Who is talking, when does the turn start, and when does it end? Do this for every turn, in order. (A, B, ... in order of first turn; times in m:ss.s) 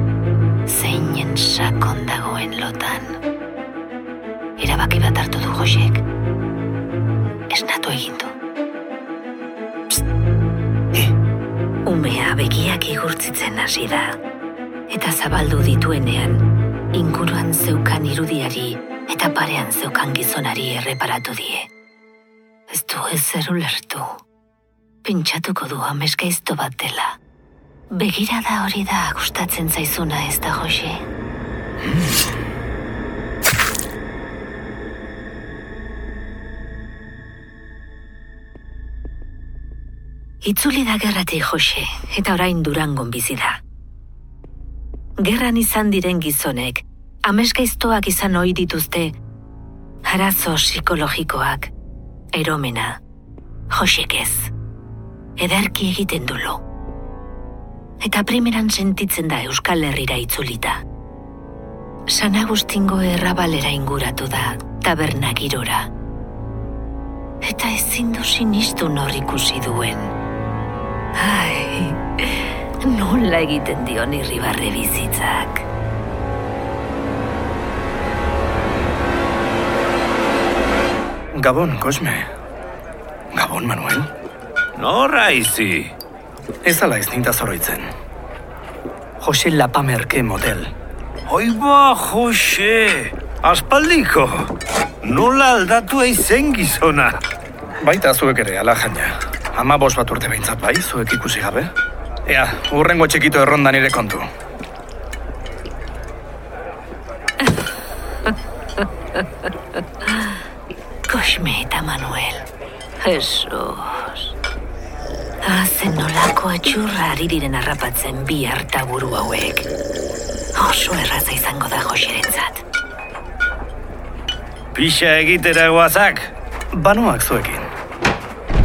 0:00.7-0:03.2 A
0:04.6-0:06.0 A
0:07.5-0:08.3 A
0:11.8-0:14.2 A
0:14.9-0:21.7 A
0:22.7-0:24.2 A
0:25.0-0:27.2 A
0:27.9-0:31.0 A
0:40.4-0:43.6 A
0:45.2-0:49.2 A
0:50.0-0:51.7 A
0:52.3-0:53.0 A
0:53.7-0:54.5 A
0:55.4-0:56.6 A
0:58.0-1:00.8 A
1:02.1-1:05.9 A
1:07.4-1:10.1 A
1:11.2-1:15.6 A
1:21.3-1:22.3 B
1:23.3-1:24.1 B
1:24.8-1:25.9 C
1:26.6-1:27.9 B
1:29.2-1:30.7 B
1:31.2-1:34.5 C
1:35.0-1:37.2 C
1:37.8-1:41.7 B
1:42.2-1:44.3 B
1:51.1-1:52.4 A
1:53.0-1:54.3 A
1:55.4-1:59.7 A
2:00.6-2:02.6 A
2:04.7-2:06.3 C
2:06.7-2:07.7 B